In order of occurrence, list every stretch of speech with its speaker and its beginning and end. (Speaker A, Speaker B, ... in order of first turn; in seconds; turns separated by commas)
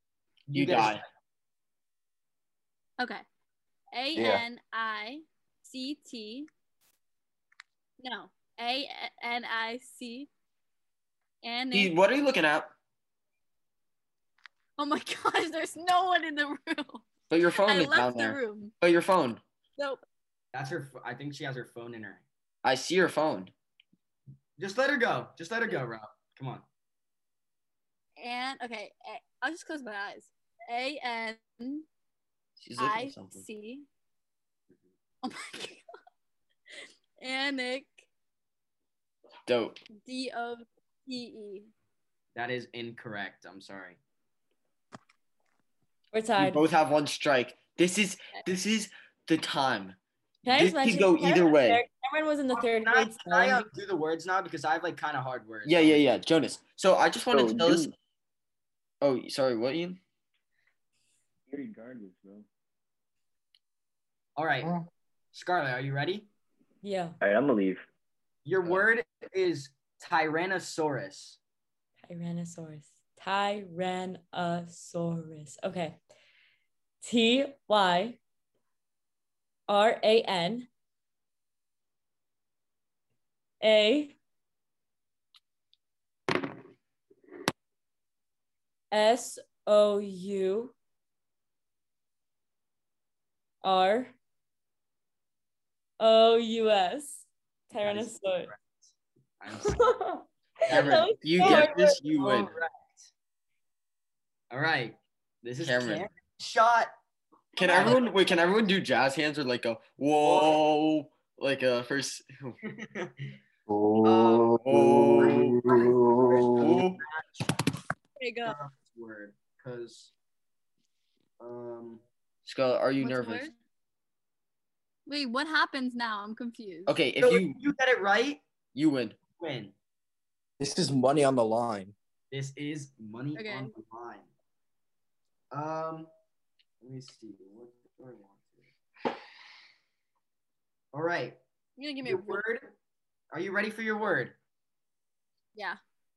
Speaker A: 0.5-1.1, Speaker B: 0.5-1.0, Speaker C: 3.9-6.5, Speaker D: 4.2-4.4, Speaker C: 8.0-10.3, Speaker C: 11.4-11.9, Speaker B: 11.7-12.7, Speaker C: 14.8-17.1, Speaker B: 17.3-19.4, Speaker C: 17.6-18.7, Speaker C: 19.8-20.0, Speaker A: 20.5-22.2, Speaker B: 22.6-23.5, Speaker A: 24.6-26.6, Speaker C: 28.2-31.9, Speaker B: 32.6-33.4, Speaker C: 32.8-33.9, Speaker C: 35.2-35.9, Speaker C: 37.2-38.0, Speaker B: 39.5-39.8, Speaker C: 40.0-41.7, Speaker A: 42.4-44.0, Speaker E: 46.1-46.6, Speaker B: 46.4-50.0, Speaker E: 50.5-53.7, Speaker B: 50.5-51.8, Speaker A: 52.5-56.0, Speaker B: 55.7-57.9, Speaker F: 57.3-57.9, Speaker B: 59.0-60.0, Speaker F: 61.5-62.4, Speaker A: 64.4-64.7, Speaker A: 65.3-66.3, Speaker E: 66.8-67.2, Speaker F: 67.2-67.8, Speaker A: 68.5-71.4, Speaker E: 72.0-76.0, Speaker E: 77.0-78.2, Speaker E: 79.7-80.7, Speaker E: 83.6-84.2, Speaker E: 88.9-90.7, Speaker E: 93.6-94.1, Speaker E: 96.0-98.5, Speaker A: 97.8-99.9, Speaker E: 99.6-102.0, Speaker B: 100.7-102.6, Speaker A: 100.7-103.1, Speaker A: 104.5-106.9, Speaker B: 105.6-106.1, Speaker B: 107.6-112.6, Speaker A: 107.6-108.1, Speaker C: 107.7-107.9, Speaker A: 110.2-110.6, Speaker A: 112.7-113.3, Speaker D: 113.7-116.8, Speaker A: 114.0-114.6, Speaker B: 114.6-115.6, Speaker A: 115.2-117.5, Speaker B: 116.6-117.0, Speaker C: 118.2-118.6, Speaker A: 118.4-120.1, Speaker A: 121.4-122.0, Speaker B: 122.5-123.5, Speaker C: 123.0-123.6, Speaker C: 125.1-127.0, Speaker B: 126.9-127.6, Speaker A: 127.2-128.4, Speaker B: 128.8-129.2, Speaker A: 129.4-129.7, Speaker D: 130.6-131.9, Speaker A: 132.3-134.3, Speaker C: 133.3-133.7, Speaker A: 135.5-136.1, Speaker A: 136.8-138.7, Speaker A: 140.9-141.4, Speaker C: 141.8-142.4, Speaker A: 142.0-142.7, Speaker A: 143.3-144.3